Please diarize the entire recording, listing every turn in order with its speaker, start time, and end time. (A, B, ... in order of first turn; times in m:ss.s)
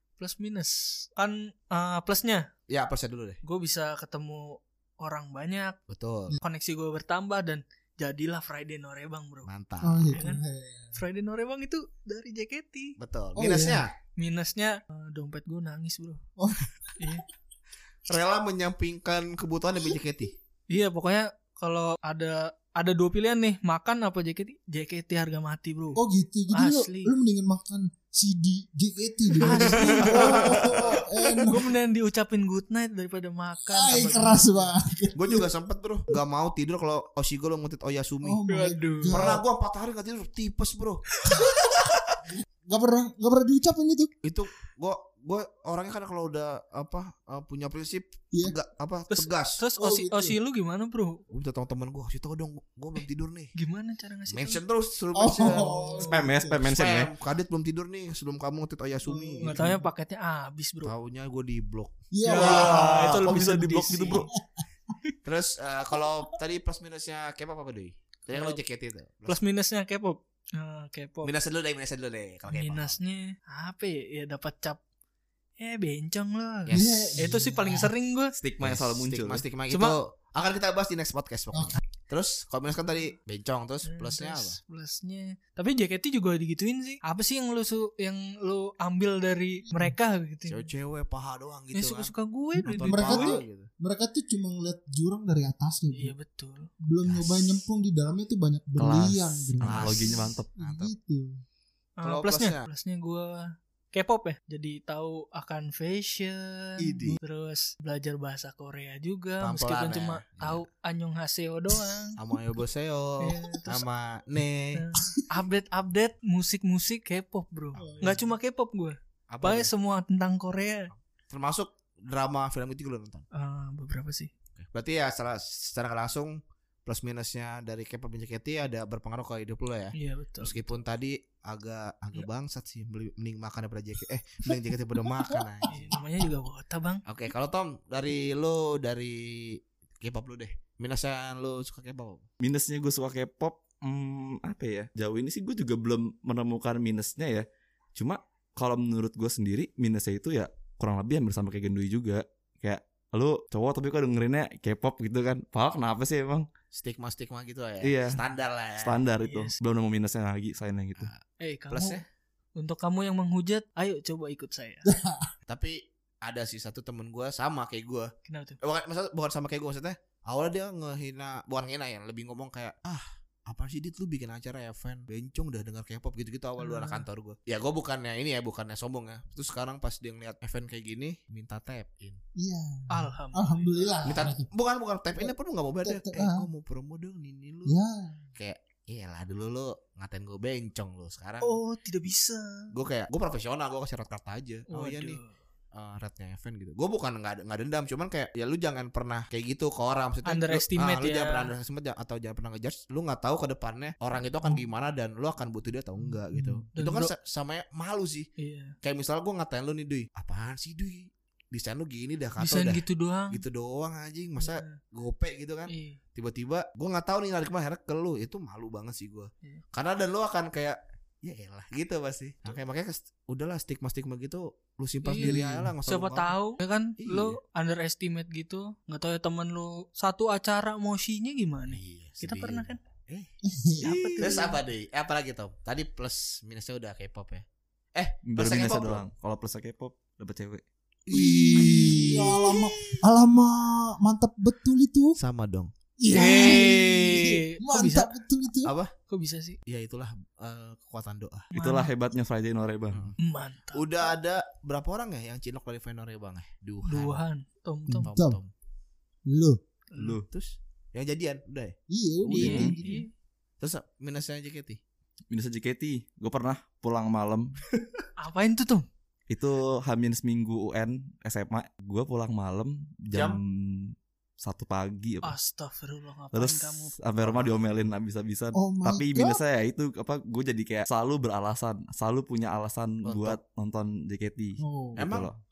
0:00.2-0:02.5 A
0:02.7-0:03.4 B
0:03.4-0:05.8 A
0:05.9-0:06.4 B
0:06.4-0:09.5 A
0:09.4-0:10.2 B
0:09.8-0:11.0 C
0:10.1-0:10.4 A
0:10.9-0:13.0 A
0:13.0-0:13.9 B
0:13.4-0:13.8 C
0:14.2-0:16.2 A
0:16.4-0:16.7 C
0:17.0-0:17.2 A
0:18.1-0:20.3 B
0:20.7-0:26.0 A
0:25.9-0:31.7 C
0:26.5-0:27.1 A
0:29.4-0:34.7 A
0:29.5-0:30.8 B
0:33.6-0:35.5 C
0:35.1-0:38.4 B
0:38.2-0:39.4 C
0:38.5-0:39.2 A
0:39.1-0:41.0 B
0:41.3-0:41.7 C
0:41.7-0:41.9 B
0:42.3-0:44.1 C
0:44.2-0:49.6 B
0:49.1-0:51.2 A
0:49.8-0:50.4 C
0:51.3-0:53.5 B
0:53.6-0:54.6 A
0:54.3-0:55.7 B
0:55.1-0:56.6 C
0:55.4-0:56.2 A
0:56.1-0:57.1 D
0:56.7-0:59.6 B
0:59.0-0:59.8 C
0:59.4-1:00.9 A
1:00.8-1:03.0 B
1:02.1-1:03.2 C
1:02.2-1:04.3 A
1:02.4-1:04.3 D
1:04.1-1:04.6 C
1:05.2-1:09.4 B
1:08.3-1:08.6 A
1:09.2-1:11.3 A
1:11.2-1:13.0 B
1:12.5-1:14.8 A
1:15.6-1:18.3 A
1:16.7-1:17.3 B
1:16.7-1:17.9 C
1:18.4-1:19.4 D
1:18.6-1:24.6 B
1:19.7-1:20.0 A
1:21.5-1:21.8 C
1:23.8-1:30.7 A
1:30.5-1:33.7 B
1:31.7-1:33.4 A
1:32.7-1:36.1 C
1:35.9-1:36.7 A
1:36.8-1:41.4 C
1:37.0-1:37.6 B
1:38.8-1:40.5 D
1:39.6-1:40.9 B
1:42.0-1:52.2 A
1:42.0-1:42.6 B
1:46.8-1:47.2 B
1:49.4-1:50.6 B
1:52.2-1:54.8 B
1:53.2-1:53.8 A
1:54.7-2:00.9 A
1:57.7-1:58.2 B
1:57.7-1:58.2 C
1:59.3-1:59.7 B
2:00.9-2:03.2 B
2:03.3-2:04.3 A
2:04.6-2:15.9 B
2:09.9-2:10.8 A
2:15.0-2:16.0 C
2:15.7-2:17.0 A
2:17.0-2:22.2 B
2:22.4-2:36.5 D
2:36.7-2:39.0 B
2:37.8-2:38.2 D
2:38.8-2:41.1 D
2:39.2-2:39.6 A
2:41.0-2:42.0 B
2:41.4-2:42.0 A
2:42.6-2:44.8 A
2:44.8-2:45.3 C
2:45.5-3:02.2 B
2:48.2-2:48.6 A
2:56.6-2:57.0 A
3:02.4-3:04.5 C
3:02.9-3:04.0 A
3:04.0-3:07.7 B
3:05.1-3:06.5 C
3:07.6-3:08.2 C
3:08.4-3:11.5 B
3:11.4-3:12.7 A
3:12.7-3:15.2 B
3:14.7-3:15.4 A
3:15.7-3:28.3 B
3:20.2-3:21.5 A
3:26.0-3:26.6 C
3:26.8-3:27.1 A
3:28.4-3:28.7 A
3:28.8-3:46.3 B
3:32.4-3:33.4 A
3:34.4-3:34.8 A
3:35.7-3:36.0 A
3:45.0-3:52.8 A
3:45.2-3:45.7 C
3:47.0-3:47.4 B
3:51.7-3:53.3 B
3:53.4-3:54.4 C
3:53.8-3:54.6 A
3:53.9-3:59.0 B
3:58.3-4:00.6 D
4:01.1-4:03.0 B
4:01.1-4:05.2 C
4:05.2-4:05.7 B
4:06.0-4:08.7 C
4:06.1-4:08.1 A
4:06.4-4:06.6 B
4:08.6-4:08.9 B
4:09.1-4:09.6 A
4:09.7-4:11.5 B
4:11.5-4:11.9 A
4:11.5-4:13.0 D
4:13.2-4:14.1 A
4:13.7-4:17.2 B
4:16.8-4:18.1 A
4:17.9-4:18.4 C
4:18.0-4:18.5 B
4:19.3-4:19.6 C
4:19.9-4:20.2 A
4:20.0-4:20.2 D
4:20.2-4:22.8 B
4:21.9-4:23.0 C
4:22.4-4:22.7 D
4:22.4-4:23.1 A
4:23.6-4:24.8 B
4:25.3-4:27.5 D
4:28.2-4:28.8 A
4:29.3-4:35.3 D
4:33.1-4:33.4 B
4:35.2-4:37.0 A
4:36.3-4:45.4 D
4:37.2-4:37.6 B
4:38.5-4:39.4 C
4:43.0-4:43.4 B
4:44.6-4:45.0 C
4:45.0-4:45.3 B